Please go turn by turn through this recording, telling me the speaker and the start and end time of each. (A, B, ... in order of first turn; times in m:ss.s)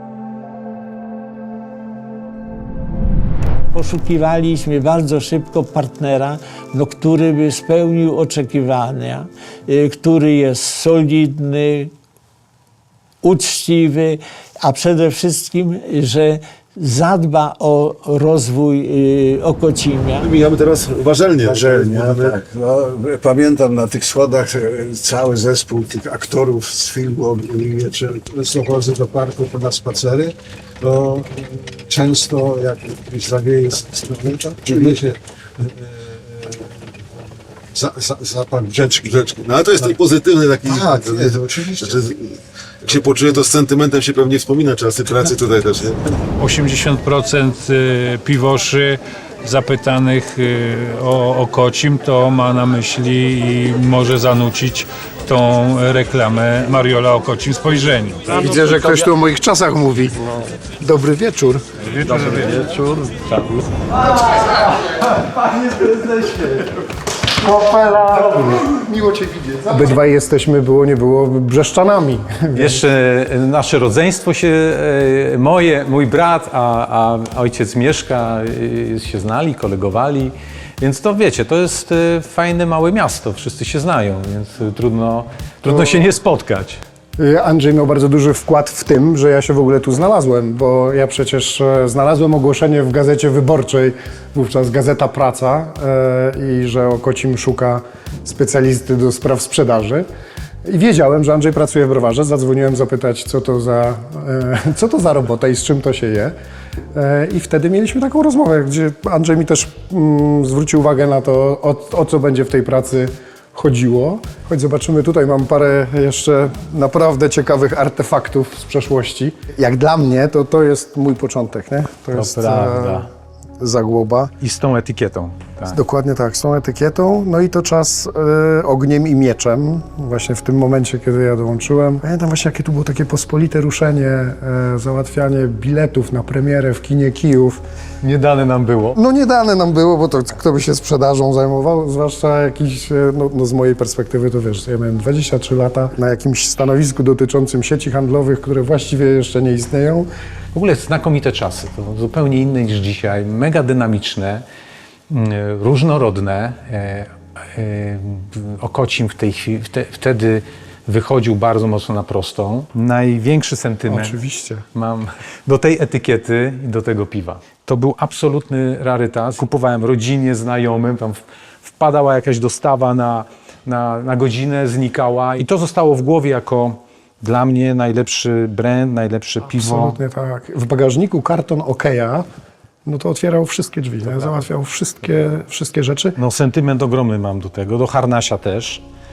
0:03.7-0:11.9 A
0:13.2-0:20.3 A
0:20.2-0:22.4 B
0:21.4-0:36.7 C
0:34.6-0:35.0 B
0:37.7-0:39.1 C
0:39.0-0:46.0 B
0:40.6-0:42.0 C
0:46.4-0:58.4 D
0:58.3-1:00.3 E
1:00.8-1:01.7 E
1:08.1-1:12.8 E
1:12.5-1:26.8 F
1:25.6-1:26.0 E
1:27.2-1:40.1 E
1:40.6-1:46.3 E
1:46.9-2:03.1 E
2:02.1-2:03.1 F
2:03.6-2:04.3 E
2:04.4-2:05.8 F
2:05.7-2:17.6 E
2:18.0-2:19.0 F
2:18.9-2:30.1 E
2:30.5-2:34.4 F
2:35.1-2:44.2 F
2:43.9-2:44.6 E
2:44.7-3:00.0 F
2:59.5-3:02.2 E
3:02.8-3:06.2 E
3:06.2-3:08.8 F